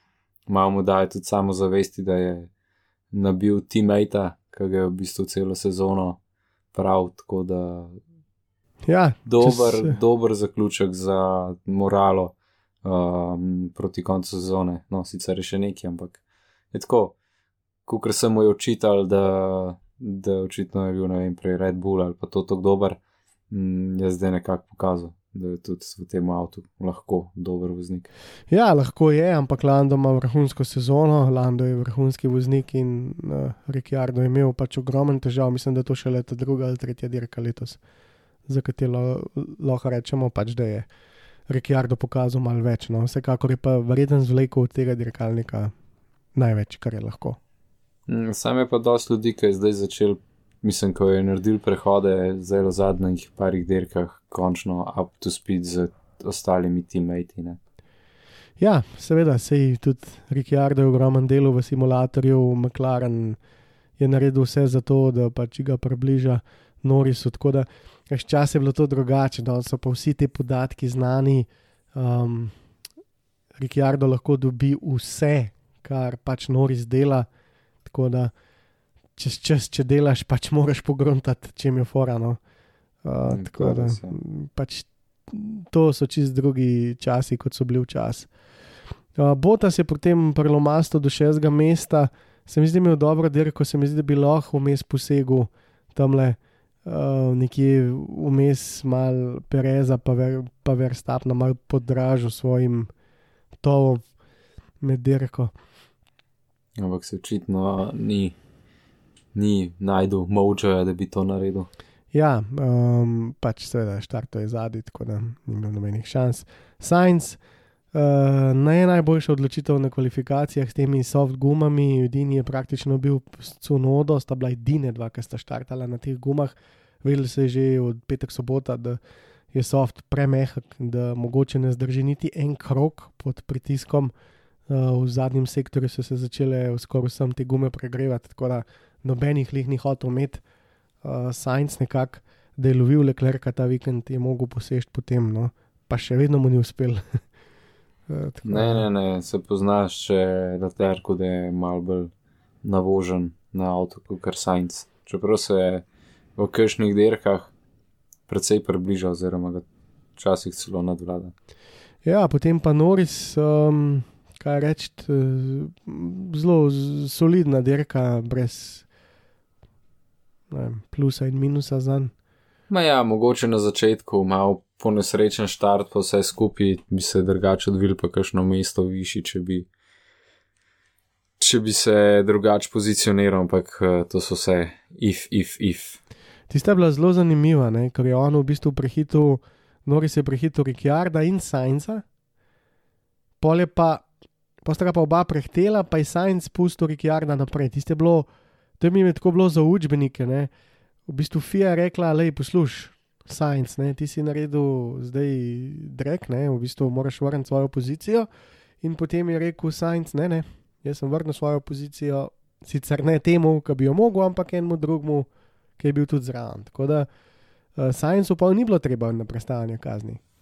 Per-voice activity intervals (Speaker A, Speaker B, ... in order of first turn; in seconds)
Speaker A: 0.5-2.5, 3.1-6.2, 6.7-8.0, 9.2-16.2, 16.7-17.1, 17.9-23.0, 23.5-28.1, 48.1-57.6, 83.3-84.1, 106.8-108.4, 109.3-111.7, 148.4-152.1, 152.6-155.8, 156.3-157.5, 158.3-159.6, 160.2-161.3, 172.7-179.7, 181.4-186.0
Speaker B: 8.8-9.9, 28.5-37.8, 38.5-40.9, 41.5-45.7, 46.3-47.4, 58.6-63.4, 64.0-72.5, 73.6-77.3, 77.8-78.3, 79.2-82.4, 83.0-88.3, 89.2-102.9, 103.6-104.0, 104.8-105.5, 112.1-117.4, 117.9-129.0, 129.5-134.1, 134.7-140.4, 141.0-147.2, 148.1-148.8, 162.0-168.8, 170.5-172.1, 186.5-192.0, 193.4-194.1, 194.6-198.3, 198.8-200.5, 201.1-208.3, 208.8-215.3, 215.8-217.1, 217.8-220.2